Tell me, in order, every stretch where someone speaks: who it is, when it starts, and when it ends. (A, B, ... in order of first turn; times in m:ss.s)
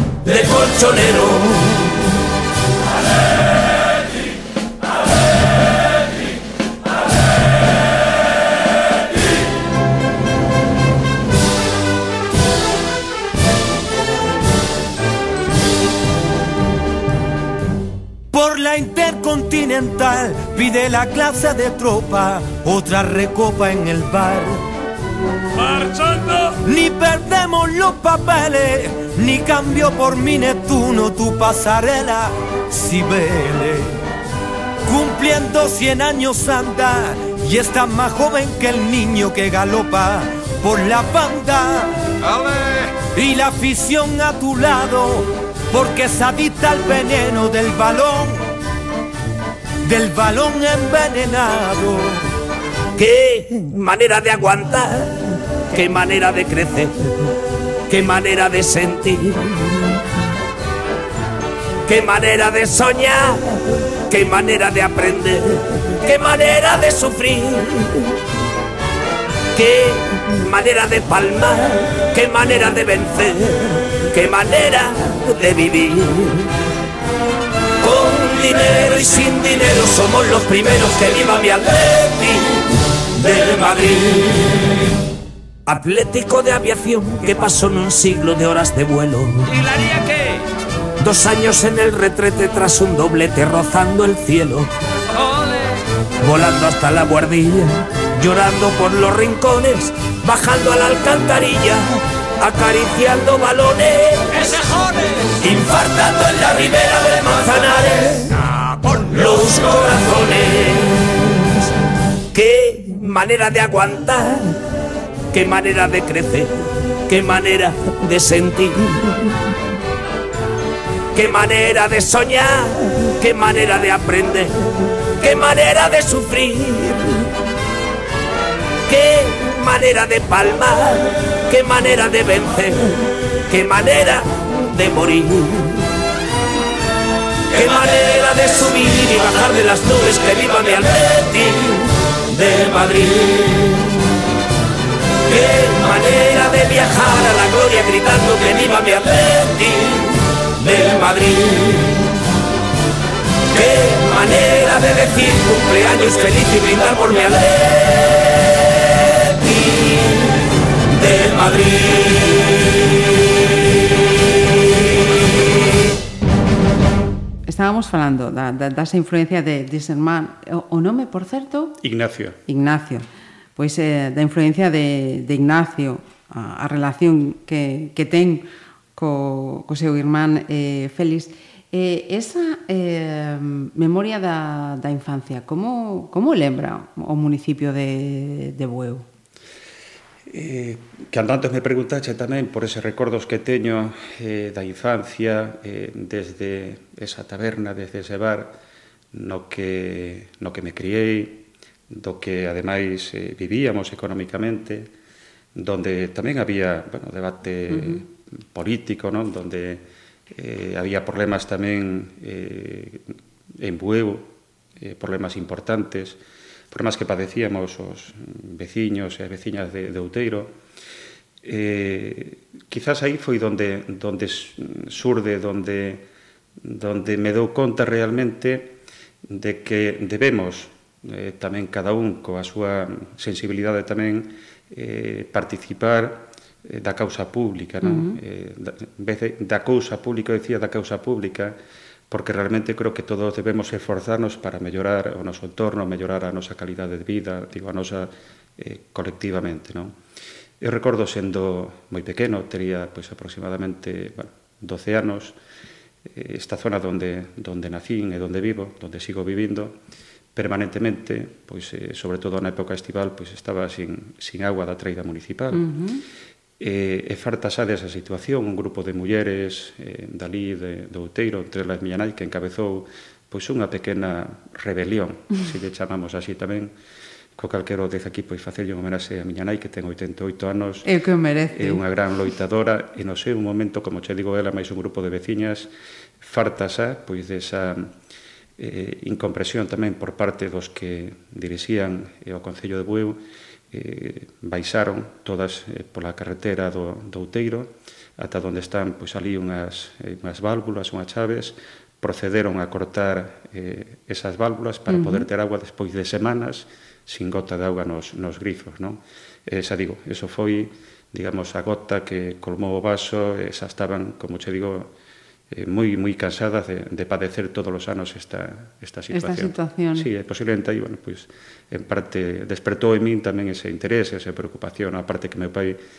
0:00.2-0:01.9 A
0:18.3-0:24.6 B
0:25.6-0:26.6 C
0:26.6-0:34.0 B
0:34.8-0:41.9 B
0:43.0-0:48.5 B
0:49.8-0:52.2 B
0:53.0-0:57.1 A
0:57.9-0:59.6 A
1:01.8-1:08.1 A
1:09.5-1:16.5 A
1:17.8-1:24.5 A
1:25.6-1:29.5 A
1:29.7-1:30.3 C
1:31.0-1:34.7 A
1:35.3-1:35.5 C
1:36.2-1:44.6 A
1:45.4-1:51.1 A
1:52.3-1:54.6 A
1:55.3-1:56.5 A
1:57.1-1:59.2 A
2:01.1-2:07.3 A
2:08.9-2:15.9 A
2:17.5-2:23.7 A
2:25.3-2:32.0 A
2:33.5-2:40.1 A
2:40.9-2:42.8 A
2:47.4-2:51.8 D
2:51.8-2:52.4 E
2:52.5-3:09.0 D
3:10.3-3:18.5 E
3:19.1-3:24.9 E
3:25.6-3:29.8 E
3:27.7-3:28.0 D
3:30.3-3:33.0 E
3:33.6-3:36.2 E
3:36.7-3:40.5 E
3:41.4-3:46.0 E
3:46.6-3:48.7 E
3:49.3-4:01.6 E
3:57.8-3:58.2 D
4:02.1-4:09.9 E
4:10.6-4:15.4 E
4:16.1-4:19.8 E
4:20.3-4:25.6 E
4:25.5-4:26.0 D
4:26.6-4:36.7 E
4:37.4-4:40.9 E
4:40.8-4:41.8 D
4:41.5-4:45.7 E
4:46.2-4:47.9 E
4:48.6-4:53.2 E
4:53.7-5:14.9 E
5:04.9-5:05.2 D
5:15.5-5:25.8 E
5:19.1-5:20.1 D